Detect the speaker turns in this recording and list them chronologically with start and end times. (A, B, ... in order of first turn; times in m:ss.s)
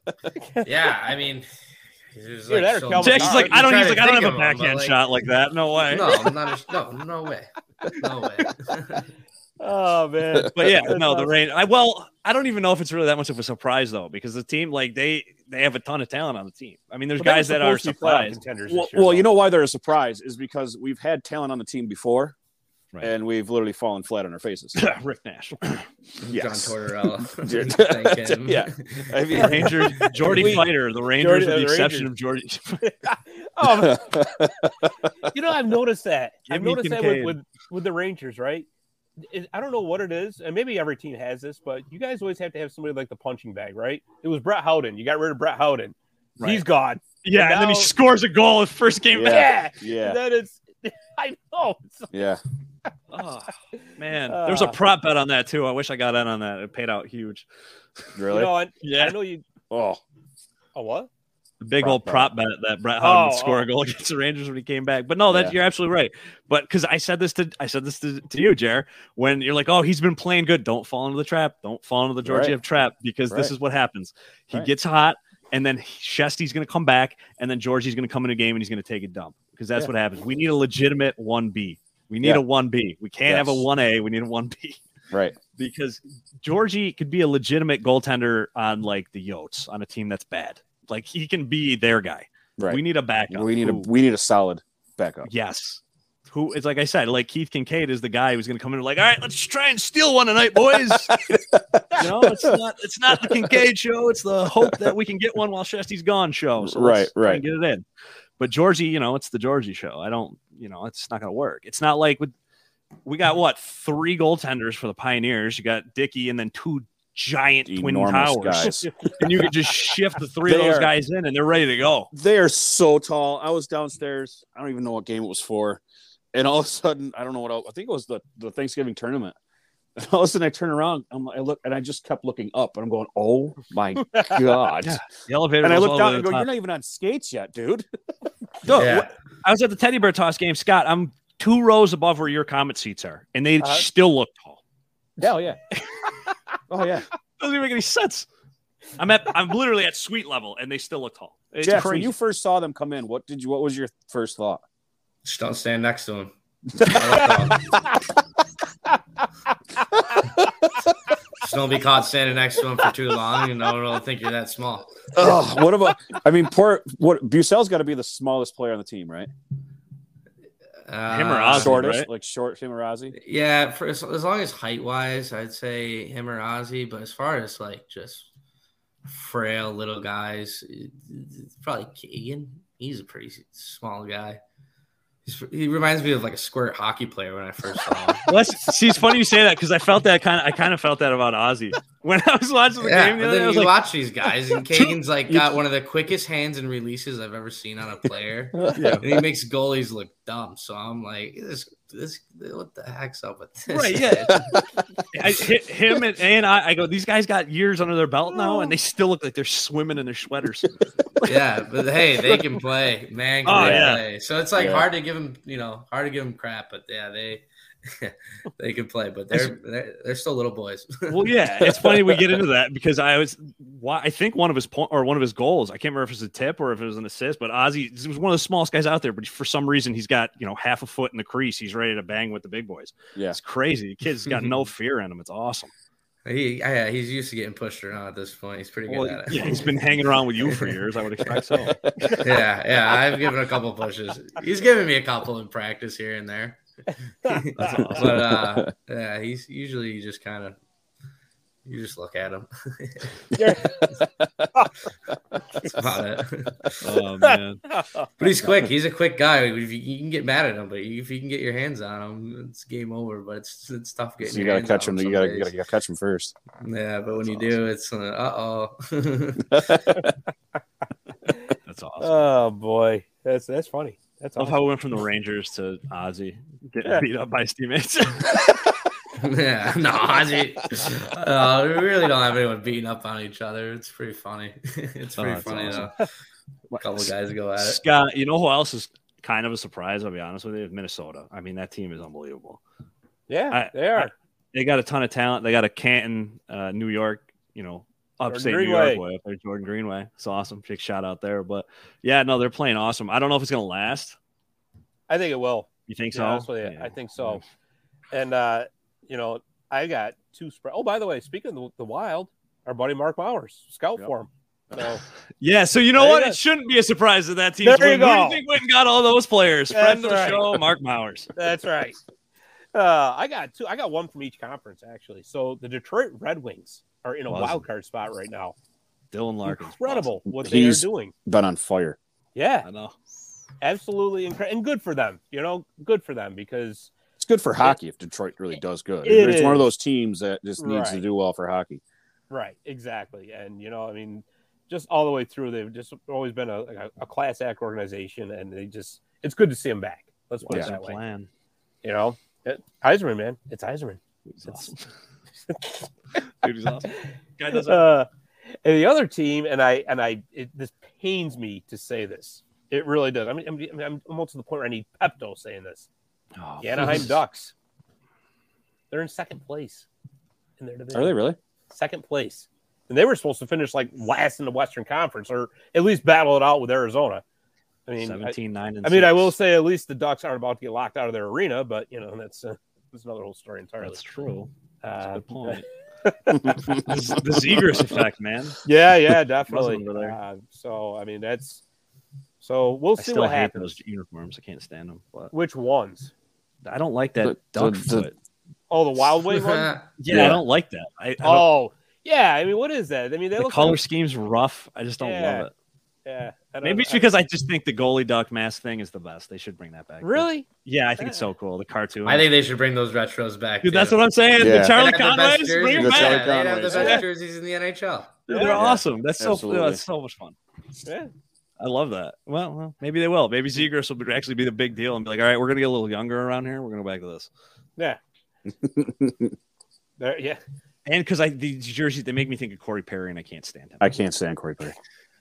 0:00.4-0:00.7 A
0:00.6-0:01.5 B
0:02.1-0:05.0 B
0:02.5-0:03.6 A
0:03.0-0:06.2 C
0:05.9-0:09.0 B
0:09.6-0:11.3 A
0:10.5-0:18.8 C
0:17.2-0:19.2 A
0:18.9-0:22.3 D
0:23.0-0:24.8 D
0:24.8-0:25.8 C
0:26.2-0:29.1 B
0:26.2-0:30.7 D
0:29.3-0:32.9 C
0:29.4-0:32.1 A
0:32.8-0:34.1 A
0:33.7-0:34.7 D
0:35.3-0:38.7 A
0:36.5-0:37.4 C
0:39.3-0:47.9 A
0:46.4-0:46.6 C
0:47.2-0:49.6 C
0:49.1-0:50.2 D
0:49.2-0:52.1 A
0:52.1-0:52.4 D
0:53.1-0:57.5 C
0:54.3-0:54.8 A
0:58.2-0:58.5 D
0:58.3-0:59.4 A
0:58.8-0:59.1 C
0:59.7-1:00.0 D
1:00.7-1:01.1 A
1:01.6-1:24.8 C
1:01.8-1:02.3 D
1:03.0-1:03.7 A
1:12.2-1:12.6 D
1:23.2-1:23.6 D
1:25.1-1:25.4 D
1:25.5-1:33.8 C
1:32.6-1:35.3 D
1:35.2-1:41.1 C
1:40.9-1:42.6 D
1:42.0-1:47.8 C
1:43.1-1:43.6 D
1:46.6-1:47.4 D
1:48.4-1:52.3 C
1:53.0-2:02.1 C
1:57.7-1:59.3 D
2:00.4-2:00.9 D
2:02.1-2:05.8 D
2:06.3-2:09.4 D
2:10.0-2:17.8 D
2:14.8-2:16.5 C
2:18.6-2:24.6 C
2:18.7-2:19.1 B
2:25.2-2:25.6 D
2:26.7-2:27.0 D
2:27.4-2:28.3 C
2:29.0-2:32.1 C
2:31.6-2:34.6 D
2:35.2-2:36.3 B
2:36.8-2:37.4 D
2:36.9-2:37.7 B
2:41.4-2:45.4 B
2:45.1-2:49.3 D
2:50.9-2:51.8 B
2:51.1-2:52.1 C
2:51.5-2:53.1 D
2:53.1-2:58.3 B
2:59.1-3:04.4 B
3:05.2-3:08.3 B
3:08.2-3:13.8 C
3:12.8-3:24.4 B
3:14.4-3:15.4 C
3:18.7-3:19.2 C
3:23.6-3:24.3 C
3:25.1-3:31.4 C
3:31.2-3:41.3 B
3:33.4-3:34.8 C
3:33.5-3:33.9 D
3:41.1-3:55.7 C
3:56.2-4:00.7 B
3:58.9-4:01.7 C
4:02.2-4:06.6 B
4:07.2-4:10.6 B
4:07.8-4:08.2 C
4:08.0-4:08.7 D
4:11.6-4:13.1 B
4:13.4-4:13.8 A
4:14.0-4:14.5 D
4:15.6-4:16.8 B
4:16.8-4:17.6 C
4:17.2-4:18.0 A
4:18.2-4:25.5 B
4:24.2-4:26.4 D
4:26.6-4:29.6 B
4:27.2-4:27.6 C
4:31.6-4:32.1 C
4:32.0-4:34.6 A
4:34.4-4:38.6 C
4:39.2-4:46.1 B
4:45.2-4:45.9 C
4:46.7-4:52.6 C
4:46.8-4:47.8 B
4:53.3-4:54.1 A
4:53.5-5:04.2 C
4:58.3-4:59.0 A
5:05.1-5:07.4 A
5:05.9-5:07.4 C
5:08.1-5:15.0 A
5:15.4-5:21.3 C
5:15.9-5:16.4 A
5:17.6-5:18.4 A
5:19.7-5:20.6 A
5:21.4-5:22.0 A
5:22.7-5:28.5 A
5:27.3-5:27.6 C
5:29.1-5:30.2 C
5:29.5-5:31.1 A
5:30.3-5:32.0 D
5:32.3-5:32.7 A
5:32.6-5:32.9 C
5:33.6-5:36.9 A
5:37.2-5:41.8 D
5:39.0-5:39.7 A
5:40.6-5:41.0 A
5:42.3-5:51.0 A
5:50.4-5:51.3 C
5:51.8-5:54.7 A
5:54.3-5:54.9 C
5:55.5-5:55.8 A
5:56.4-5:57.9 C
5:57.5-5:58.1 A
5:58.6-6:05.9 A
6:06.4-6:07.2 C
6:06.6-6:07.5 A
6:08.9-6:09.9 A
6:10.6-6:17.2 A
6:10.9-6:11.4 D
6:17.9-6:24.2 A
6:18.0-6:19.3 C
6:23.8-6:25.7 C
6:24.8-6:26.5 A
6:26.7-6:28.6 C
6:28.6-6:31.6 A
6:29.5-6:30.2 C
6:32.4-6:33.8 A
6:33.0-6:35.3 C
6:35.3-6:36.1 A
6:36.6-6:38.1 C
6:37.2-6:38.1 D
6:38.7-6:39.7 A
6:39.3-6:39.9 B
6:40.0-6:41.5 C
6:40.1-6:40.4 D
6:41.2-6:43.8 A
6:43.4-6:45.5 C
6:45.0-6:45.5 A
6:46.0-6:47.1 A
6:46.6-6:52.3 C
6:50.0-6:50.5 A
6:51.0-6:51.3 A
6:52.0-6:58.3 B
6:53.6-6:56.4 C
6:54.4-6:54.8 D
6:55.7-6:57.0 D
6:56.7-6:57.0 A
6:58.3-7:00.4 C
6:58.3-6:58.6 A
6:58.4-6:59.8 D
7:00.8-7:01.1 A
7:01.6-7:07.3 C
7:08.5-7:09.4 D
7:10.0-7:10.4 A
7:10.8-7:13.8 C
7:13.8-7:14.8 D